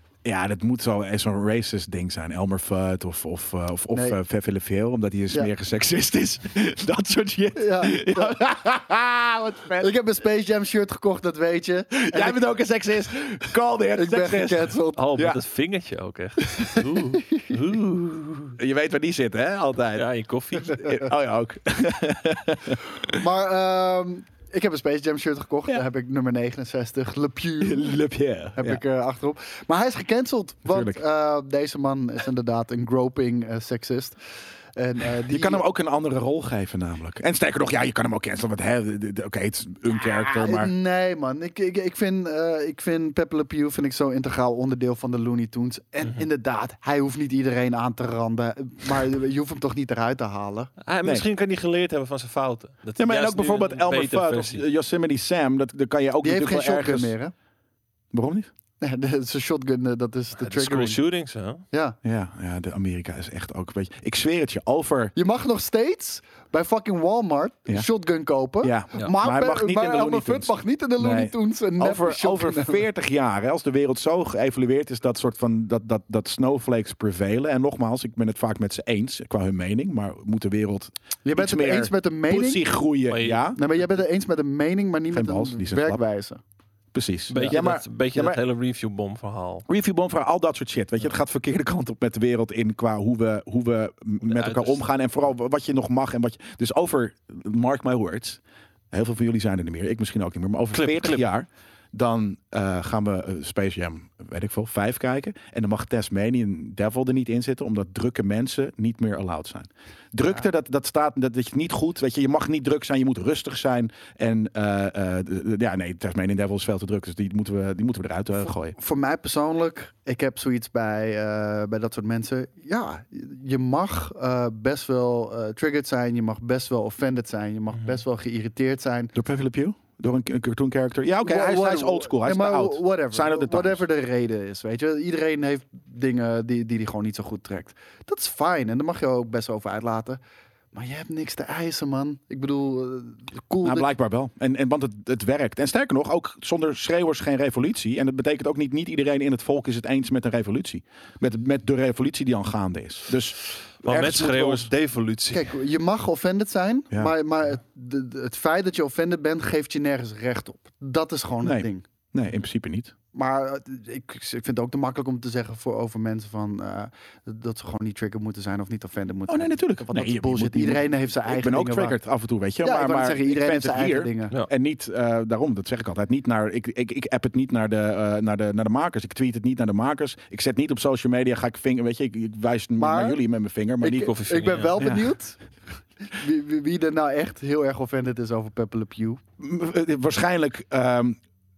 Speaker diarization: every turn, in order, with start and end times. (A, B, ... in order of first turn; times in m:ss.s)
0:00.2-0:09.9 A
0:03.9-0:04.2 B
0:07.6-0:08.4 B
0:09.8-0:12.4 B
0:11.9-0:15.4 A
0:13.9-0:15.0 B
0:15.0-0:18.6 C
0:16.5-0:17.6 B
0:18.6-0:20.1 A
0:20.0-0:20.9 C
0:20.6-0:23.2 A
0:23.1-0:27.9 B
0:27.6-0:28.8 A
0:28.6-0:34.2 B
0:30.7-0:31.0 A
0:34.7-0:35.6 B
0:35.3-0:40.7 A
0:39.9-0:50.7 B
0:50.8-0:54.6 C
0:53.0-0:57.1 A
0:56.2-0:57.3 B
0:58.1-0:58.5 A
0:58.8-1:01.0 B
1:00.4-1:01.6 C
1:01.7-1:02.0 B
1:02.0-1:05.1 A
1:05.1-1:12.8 B
1:08.6-1:23.6 A
1:21.2-1:22.6 B
1:23.1-1:23.5 C
1:23.6-1:26.4 B
1:25.1-1:26.0 A
1:26.9-1:28.4 A
1:27.3-1:29.6 C
1:29.7-1:58.7 A
1:34.2-1:34.8 C
1:40.7-1:41.2 C
1:58.4-2:09.1 B
2:09.1-2:13.8 A
2:11.2-2:20.2 B
2:20.7-2:23.9 B
2:23.6-2:34.7 A
2:33.8-2:35.5 C
2:35.3-2:41.8 B
2:41.4-2:42.9 A
2:43.1-2:52.0 B
2:49.3-3:04.2 A
2:52.6-2:54.4 B
3:02.8-3:03.2 B
3:03.8-3:05.4 B
3:04.0-3:04.8 C
3:04.8-3:05.1 A
3:06.0-3:09.2 B
3:09.4-3:11.2 A